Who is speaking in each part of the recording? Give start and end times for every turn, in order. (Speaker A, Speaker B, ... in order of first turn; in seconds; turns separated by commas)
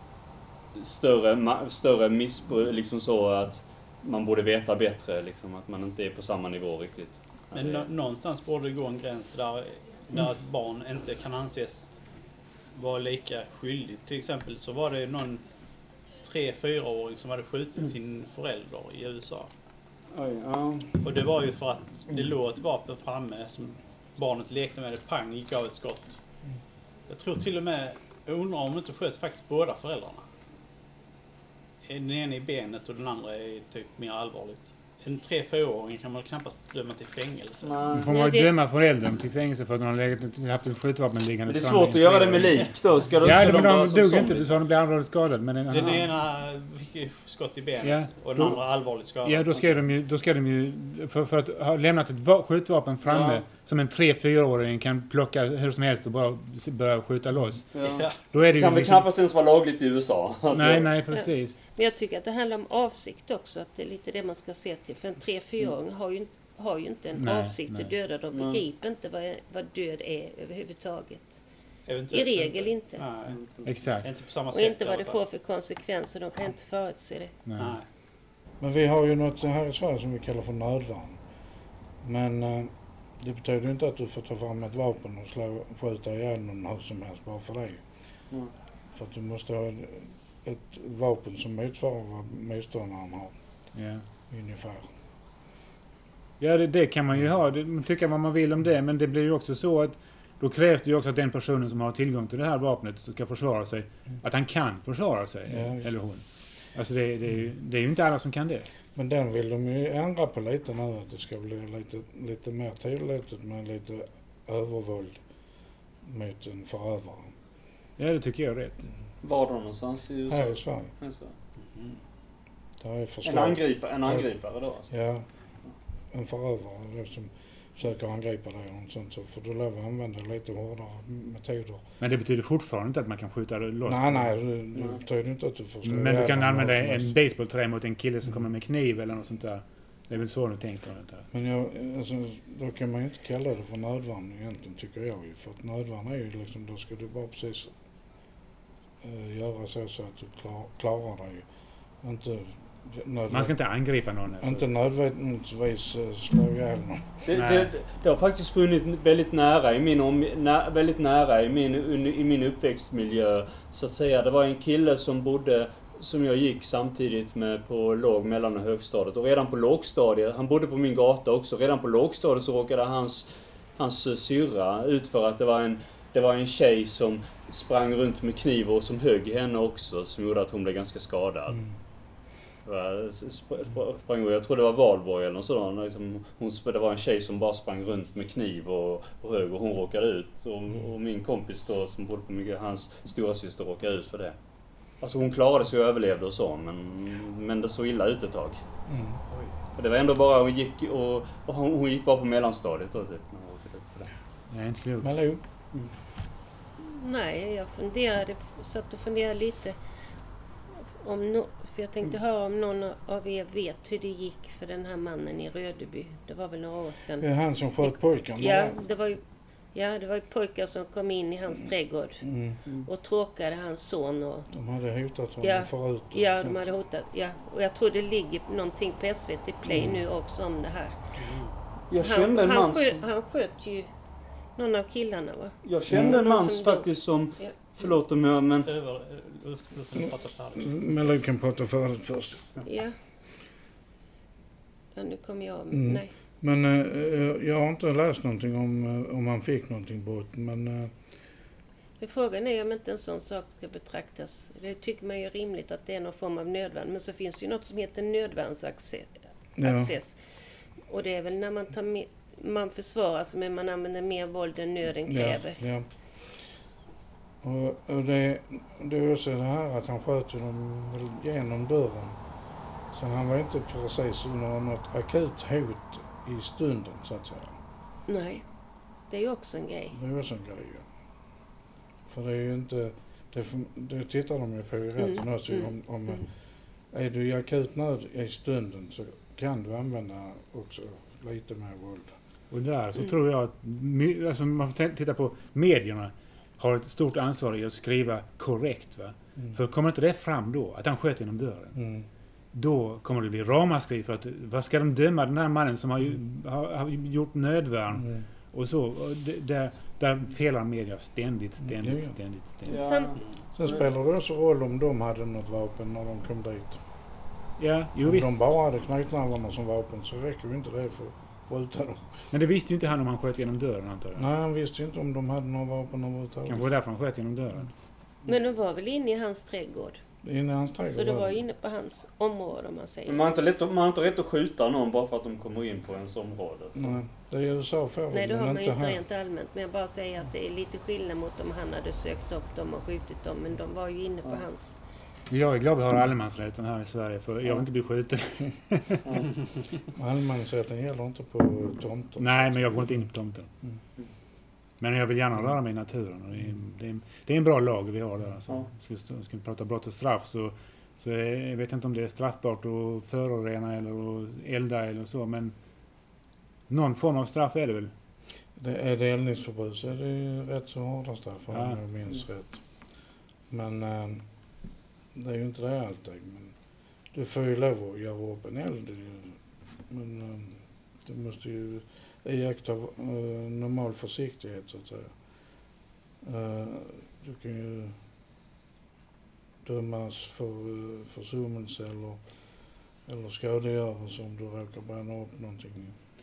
Speaker A: 0.8-7.9, Speaker B: 7.5-11.9, Speaker B: 12.7-15.4, Speaker B: 16.2-19.5, Speaker A: 20.1-20.9, Speaker B: 21.0-26.2, Speaker B: 27.1-30.3, Speaker B: 31.9-38.0, Speaker A: 37.6-38.1, Speaker C: 38.0-42.6, Speaker D: 38.1-38.5, Speaker A: 41.5-44.5, Speaker C: 43.2-46.1, Speaker B: 45.7-49.8, Speaker C: 47.8-48.1, Speaker C: 49.2-59.0, Speaker A: 53.0-53.4, Speaker A: 57.7-60.9, Speaker B: 57.8-58.2, Speaker C: 60.5-61.6, Speaker D: 61.1-71.4, Speaker C: 67.2-67.9, Speaker A: 68.3-68.6, Speaker B: 71.9-73.4, Speaker D: 72.1-73.0, Speaker A: 73.3-73.7, Speaker C: 73.7-74.1, Speaker B: 74.0-75.2, Speaker D: 74.5-77.4, Speaker C: 77.5-77.8, Speaker B: 77.6-77.9, Speaker E: 78.6-81.2, Speaker E: 82.0-87.8, Speaker E: 89.0-93.4, Speaker C: 93.7-94.0, Speaker E: 94.3-94.9, Speaker C: 96.4-108.7, Speaker E: 105.5-105.9, Speaker E: 109.0-115.2, Speaker E: 116.0-117.3, Speaker C: 118.0-118.8, Speaker A: 119.2-121.3, Speaker E: 120.3-120.9, Speaker B: 121.7-122.0, Speaker E: 122.8-124.3, Speaker A: 123.2-124.9, Speaker E: 124.9-125.3, Speaker E: 126.1-131.8, Speaker C: 132.0-134.4, Speaker E: 133.9-137.1, Speaker C: 135.8-141.3, Speaker E: 141.3-147.7, Speaker E: 149.0-151.5, Speaker E: 152.0-153.6, Speaker C: 153.3-154.7, Speaker E: 154.4-157.2, Speaker A: 157.2-181.6, Speaker C: 157.3-157.7, Speaker A: 182.7-194.3, Speaker A: 195.0-198.6, Speaker E: 198.9-199.2, Speaker A: 199.8-204.1, Speaker C: 204.5-205.2, Speaker E: 205.0-205.4, Speaker D: 206.8-209.8, Speaker D: 210.7-217.3, Speaker E: 217.2-218.8, Speaker D: 217.8-219.2, Speaker D: 219.7-222.3, Speaker E: 222.2-222.6, Speaker D: 222.8-224.5, Speaker E: 224.5-226.7, Speaker D: 225.4-231.0, Speaker E: 229.7-230.0, Speaker A: 231.9-233.0, Speaker D: 231.9-233.9, Speaker D: 234.6-237.9, Speaker A: 235.6-238.7, Speaker E: 235.8-236.2, Speaker B: 238.7-241.0, Speaker E: 240.6-242.5, Speaker D: 242.7-243.0, Speaker D: 244.9-246.1, Speaker E: 245.7-250.9, Speaker D: 252.0-260.2, Speaker E: 259.6-259.9, Speaker D: 260.9-265.6, Speaker E: 265.1-266.4, Speaker E: 267.4-272.2, Speaker E: 272.9-277.6, Speaker D: 278.1-278.4, Speaker D: 279.1-280.0, Speaker E: 279.9-280.9, Speaker E: 282.1-286.3, Speaker D: 285.0-286.3, Speaker E: 286.9-292.1, Speaker C: 292.5-301.8, Speaker E: 301.8-302.1, Speaker C: 302.5-312.9, Speaker E: 308.0-308.3, Speaker E: 311.6-312.2, Speaker A: 312.7-313.9, Speaker D: 312.7-313.2, Speaker E: 313.6-316.8, Speaker C: 317.6-318.4, Speaker E: 318.0-322.1, Speaker C: 322.3-324.3, Speaker E: 324.2-326.6, Speaker C: 326.5-327.7, Speaker D: 328.3-330.0, Speaker E: 330.2-331.4, Speaker D: 330.9-333.3, Speaker A: 333.1-337.0, Speaker E: 336.8-339.0, Speaker D: 338.1-344.8, Speaker C: 345.3-349.1, Speaker A: 349.1-349.3, Speaker E: 349.9-352.8, Speaker C: 352.2-353.5, Speaker C: 354.8-365.5, Speaker C: 366.7-367.9, Speaker E: 368.6-372.9, Speaker C: 371.5-371.8, Speaker E: 373.5-374.3, Speaker E: 375.1-376.6, Speaker E: 377.1-385.3, Speaker E: 386.2-388.0, Speaker E: 389.6-392.2, Speaker E: 393.1-396.0